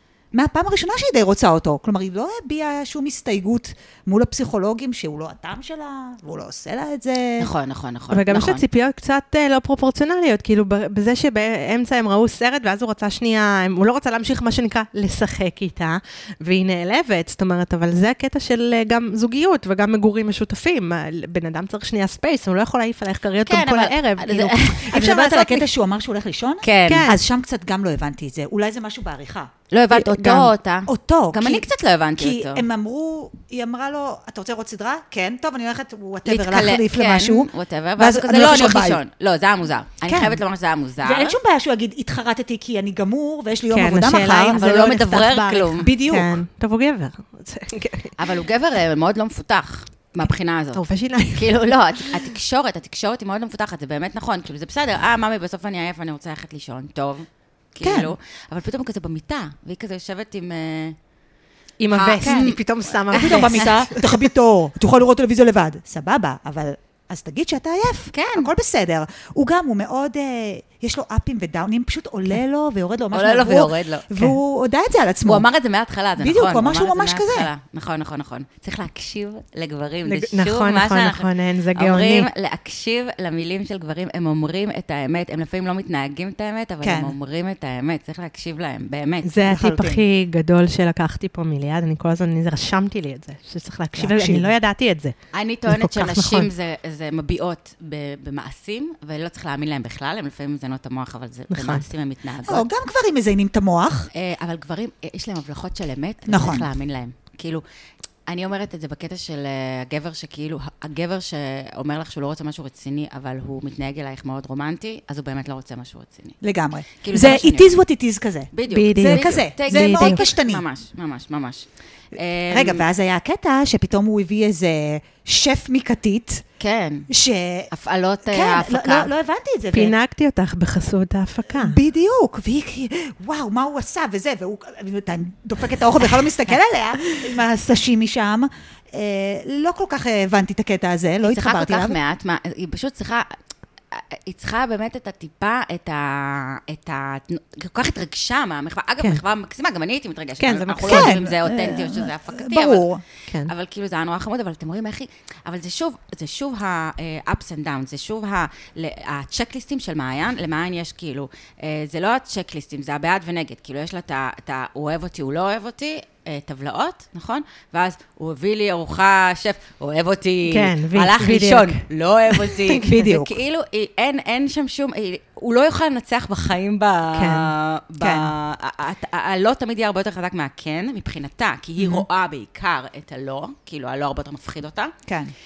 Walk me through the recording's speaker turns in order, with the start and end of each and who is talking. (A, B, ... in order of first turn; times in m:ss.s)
0:00.3-0:07.5 A
0:07.4-0:08.6 B
0:08.1-0:25.7 C
0:23.4-0:24.9 B
0:24.9-0:39.0 A
0:26.6-0:27.1 B
0:26.9-0:27.2 C
0:29.7-0:32.6 B
0:36.3-0:41.4 B
0:40.1-0:40.4 A
0:41.0-0:44.6 A
0:43.7-0:48.2 C
0:44.5-0:45.9 B
0:45.8-0:46.4 A
0:48.2-0:50.8 B
0:50.7-0:51.7 C
0:51.3-1:01.0 B
0:57.8-0:58.1 A
1:01.8-1:04.1 C
1:01.9-1:03.8 B
1:02.2-1:02.5 A
1:03.1-1:15.5 A
1:08.1-1:08.5 B
1:13.1-1:14.1 B
1:15.3-1:29.3 B
1:16.2-1:17.5 A
1:20.0-1:22.3 C
1:26.8-1:27.1 A
1:29.2-1:35.2 C
1:29.4-1:30.0 A
1:34.0-1:34.5 A
1:35.3-1:42.7 B
1:35.7-1:36.5 C
1:41.5-1:41.8 C
1:42.5-1:44.1 A
1:44.1-1:47.6 B
1:46.3-1:46.7 A
1:48.3-1:56.4 B
1:56.4-2:00.6 A
1:57.0-1:57.8 B
1:58.5-2:02.8 B
1:58.7-2:00.2 C
2:02.5-2:06.4 A
2:06.6-2:07.1 B
2:07.1-2:07.7 A
2:07.7-2:09.1 B
2:08.2-2:10.0 A
2:09.7-2:11.8 C
2:11.5-2:22.0 A
2:21.2-2:23.4 B
2:23.9-2:32.9 B
2:30.4-2:31.2 C
2:30.8-2:33.0 A
2:33.3-2:33.5 C
2:33.5-3:04.9 B
2:50.5-2:51.8 C
2:52.5-2:52.9 C
2:52.8-2:53.3 A
2:57.2-2:57.5 C
2:58.0-2:58.3 A
3:01.8-3:02.1 A
3:05.1-3:05.3 A